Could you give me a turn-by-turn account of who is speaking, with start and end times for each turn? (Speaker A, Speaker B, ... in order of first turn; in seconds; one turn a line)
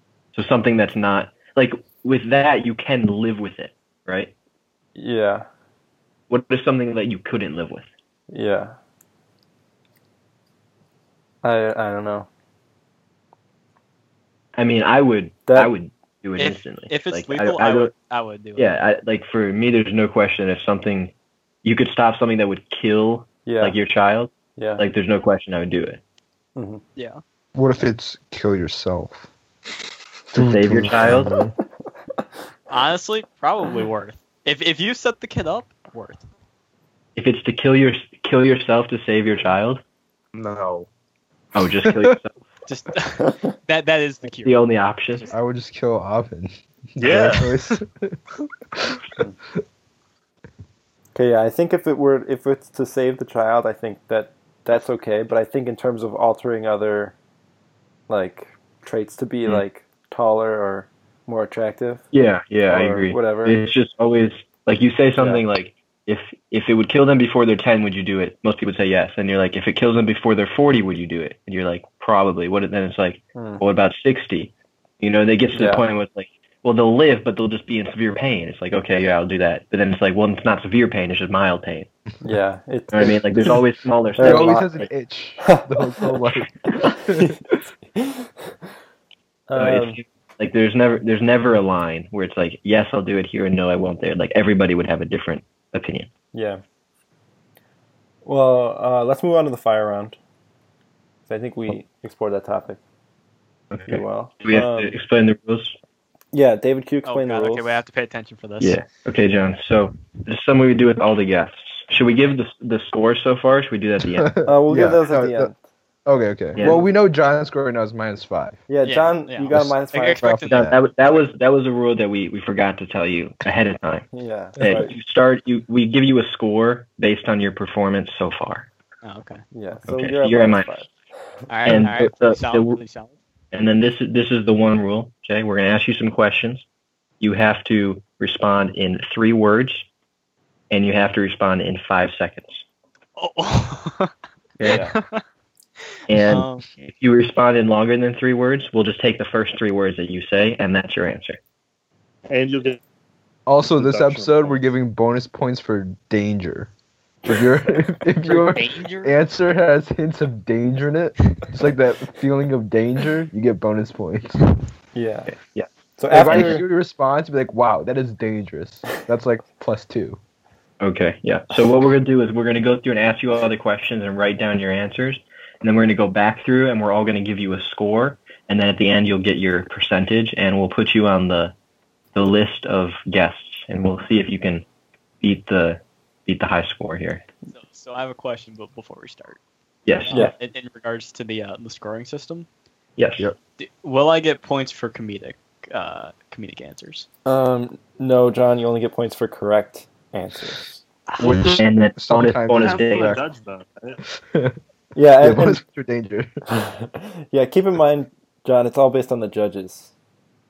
Speaker A: 0.3-4.3
Speaker B: 4.9-5.5
Speaker A: 6.3-7.8
Speaker B: 8.3-8.8
Speaker B: 11.4-12.3
Speaker A: 14.5-17.9
Speaker B: 15.5-15.7
Speaker C: 16.4-18.6
Speaker A: 18.6-21.1
Speaker A: 21.6-26.0
Speaker B: 23.4-23.8
Speaker B: 24.6-24.8
Speaker B: 26.6-26.8
Speaker C: 26.9-27.2
Speaker D: 27.5-29.3
Speaker A: 30.3-31.3
Speaker D: 30.3-31.5
Speaker C: 32.7-36.2
Speaker A: 37.1-39.8
Speaker E: 40.3-40.9
Speaker A: 41.5-42.4
Speaker D: 41.8-42.1
Speaker C: 42.7-45.3
Speaker A: 44.3-45.3
Speaker D: 45.3-48.2
Speaker E: 47.0-47.5
Speaker D: 48.8-49.0
Speaker B: 51.1-57.1
Speaker B: 58.1-62.0
Speaker A: 62.1-81.9
Speaker B: 62.7-63.6
Speaker B: 65.2-65.4
Speaker B: 73.3-73.6
Speaker B: 75.5-75.8
Speaker B: 82.2-83.6
Speaker A: 82.9-84.9
Speaker B: 84.2-84.8
Speaker D: 84.2-87.3
Speaker B: 85.4-86.0
Speaker B: 87.0-87.4
Speaker B: 87.9-88.3
Speaker B: 89.5-90.0
Speaker A: 89.5-96.1
Speaker B: 96.3-96.6
Speaker B: 98.2-100.2
Speaker B: 101.3-102.8
Speaker A: 103.7-105.8
Speaker B: 103.9-104.9
Speaker B: 106.3-107.8
Speaker C: 107.0-108.8
Speaker A: 108.6-114.3
Speaker D: 114.1-115.5
Speaker B: 114.5-115.5
Speaker D: 116.0-118.6
Speaker A: 116.5-116.8
Speaker B: 116.6-116.9
Speaker B: 118.7-120.3
Speaker C: 118.8-120.6
Speaker D: 119.5-120.8
Speaker A: 120.5-128.7
Speaker B: 124.1-124.9
Speaker C: 129.0-129.4
Speaker B: 129.5-130.9
Speaker A: 129.9-130.7
Speaker C: 131.5-133.1
Speaker A: 131.6-132.8
Speaker A: 133.5-136.6
Speaker A: 137.2-139.9
Speaker A: 140.7-142.6
Speaker C: 143.2-145.2
Speaker A: 144.6-144.8
Speaker B: 144.6-144.9
Speaker A: 146.1-151.4
Speaker C: 146.1-146.7
Speaker E: 152.3-152.8
Speaker D: 153.4-156.7
Speaker B: 153.8-154.6
Speaker D: 157.2-164.4
Speaker C: 158.2-159.1
Speaker B: 164.9-165.3
Speaker A: 165.3-165.7
Speaker B: 166.0-166.6
Speaker D: 166.1-170.2
Speaker A: 166.2-166.6
Speaker A: 170.8-181.5
Speaker A: 182.1-184.6
Speaker A: 185.2-187.2
Speaker C: 187.5-189.4
Speaker A: 189.8-190.3
Speaker C: 190.0-192.5
Speaker A: 193.0-193.3
Speaker C: 193.6-197.1
Speaker B: 197.2-200.8
Speaker C: 201.2-201.5
Speaker D: 201.2-203.2
Speaker A: 201.2-203.2
Speaker E: 202.5-204.0
Speaker D: 204.1-204.6
Speaker B: 204.9-205.6
Speaker D: 205.2-206.3
Speaker B: 206.5-209.9